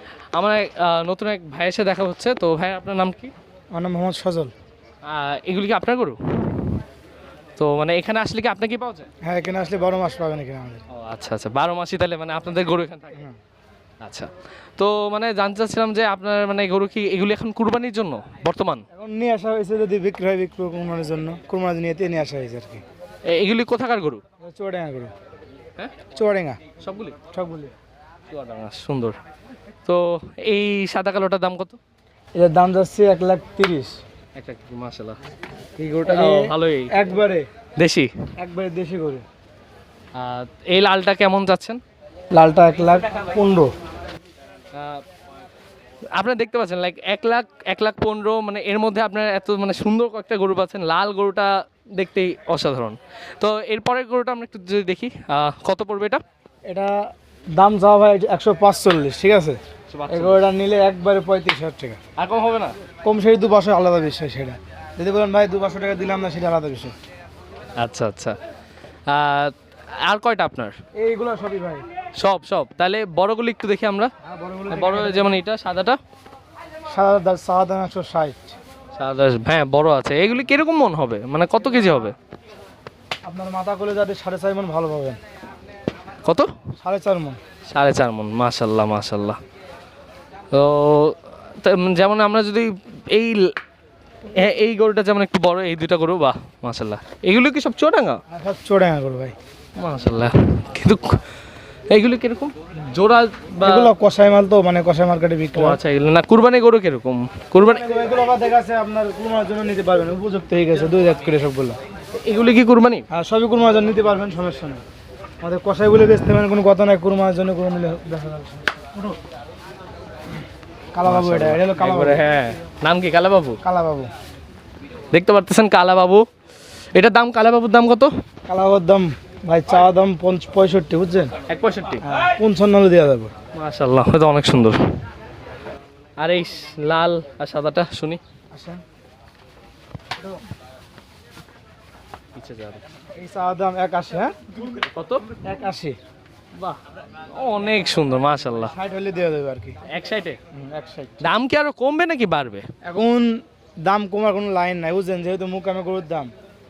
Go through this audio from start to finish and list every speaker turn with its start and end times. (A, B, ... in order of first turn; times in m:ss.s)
0:00.3-0:03.3 A
0:03.7-0:04.5 B
0:05.0-0:06.8 A
0:07.6-0:09.1 A
0:09.2-0:10.8 B
0:10.9-0:13.2 A
0:14.0-0:18.8 A
0:18.9-0:22.8 B
0:23.3-0:24.2 A
0:24.4-0:25.1 B
0:26.1-0:26.6 B
0:26.8-0:27.2 A
0:27.3-0:27.7 B
0:28.3-0:29.2 A
0:29.8-0:31.8 A
0:32.4-0:34.0 B
0:34.3-0:35.2 A
0:35.8-0:37.5 B
0:36.0-0:36.9 A
0:37.8-0:38.1 A
0:38.4-0:39.2 B
0:40.1-0:41.8 A
0:42.3-0:43.7 B
0:44.7-0:45.0 A
0:46.1-0:56.2 A
0:56.7-1:02.0 B
0:59.9-1:00.4 A
1:02.2-1:02.7 A
1:03.0-1:06.9 B
1:07.8-1:08.4 A
1:09.1-1:10.8 A
1:10.9-1:11.8 B
1:12.2-1:14.1 A
1:14.2-1:15.4 B
1:14.7-1:16.0 A
1:16.9-1:18.6 B
1:18.9-1:22.1 A
1:23.2-1:25.2 B
1:26.2-1:26.5 A
1:26.8-1:27.4 B
1:27.7-1:29.4 A
1:30.5-1:33.5 A
1:34.3-1:38.2 A
1:38.3-1:39.3 B
1:39.8-1:41.2 A
1:41.9-1:43.9 A
1:43.6-1:45.8 B
1:45.5-1:47.9 A
1:47.6-1:51.8 B
1:52.1-1:53.0 A
1:53.1-1:54.8 B
1:55.4-1:59.1 B
2:00.9-2:02.2 B
2:01.0-2:03.6 A
2:03.6-2:04.1 B
2:05.1-2:06.2 A
2:06.9-2:08.1 A
2:08.5-2:11.3 B
2:11.5-2:12.0 A
2:12.0-2:13.3 B
2:13.5-2:14.8 A
2:16.2-2:18.2 A
2:18.5-2:18.8 B
2:22.3-2:22.8 A
2:23.2-2:24.3 B
2:24.8-2:25.3 A
2:25.4-2:26.0 B
2:27.3-2:28.7 A
2:28.6-2:29.8 B
2:29.9-2:30.4 A
2:30.5-2:31.2 B
2:31.2-2:32.6 A
2:32.8-2:36.3 B